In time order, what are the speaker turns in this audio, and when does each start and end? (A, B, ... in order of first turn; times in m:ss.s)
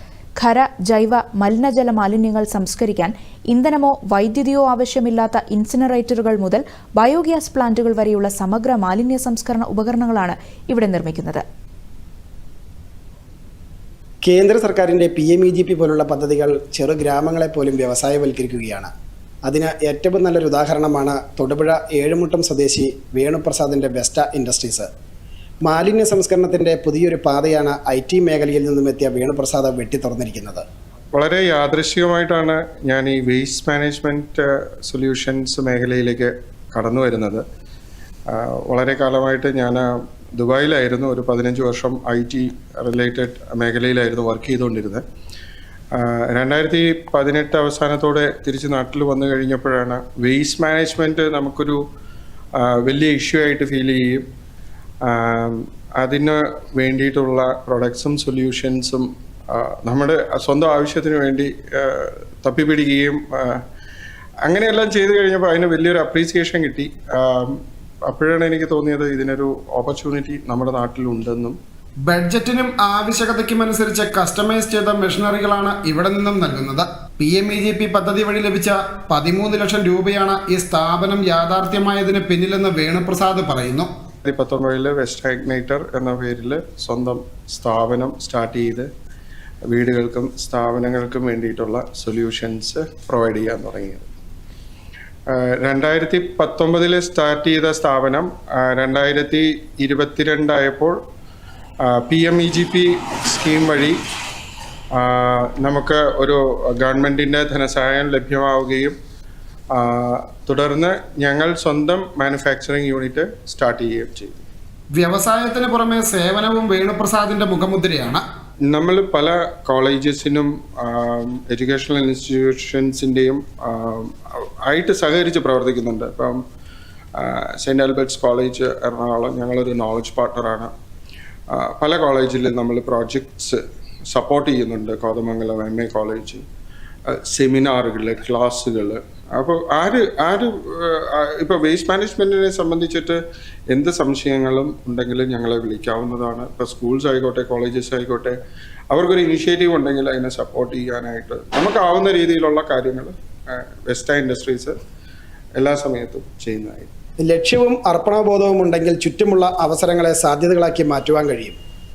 0:00.4-0:11.4 A
0:14.2-0:18.9 B
0:19.4-0:24.9 B
0:25.6-0:30.6 B
0:31.1-0:37.4 C
0:38.3-0:45.0 C
0:45.9-0:51.8 C
0:52.6-0:54.2 C
0:55.0-1:03.6 C
1:04.5-1:07.6 C
1:08.1-1:11.6 C
1:12.1-1:23.9 B
1:24.2-1:28.9 C
1:29.7-1:34.1 C
1:35.3-1:40.9 C
1:41.9-1:44.0 C
1:45.0-1:48.9 C
1:49.7-1:54.4 C
1:55.0-1:58.2 B
1:58.7-2:06.4 C
2:07.2-2:10.7 C
2:11.5-2:13.6 C
2:14.1-2:16.4 C
2:17.1-2:23.2 C
2:23.7-2:28.4 C
2:28.9-2:34.8 C
2:35.6-2:36.9 C
2:37.2-2:41.6 B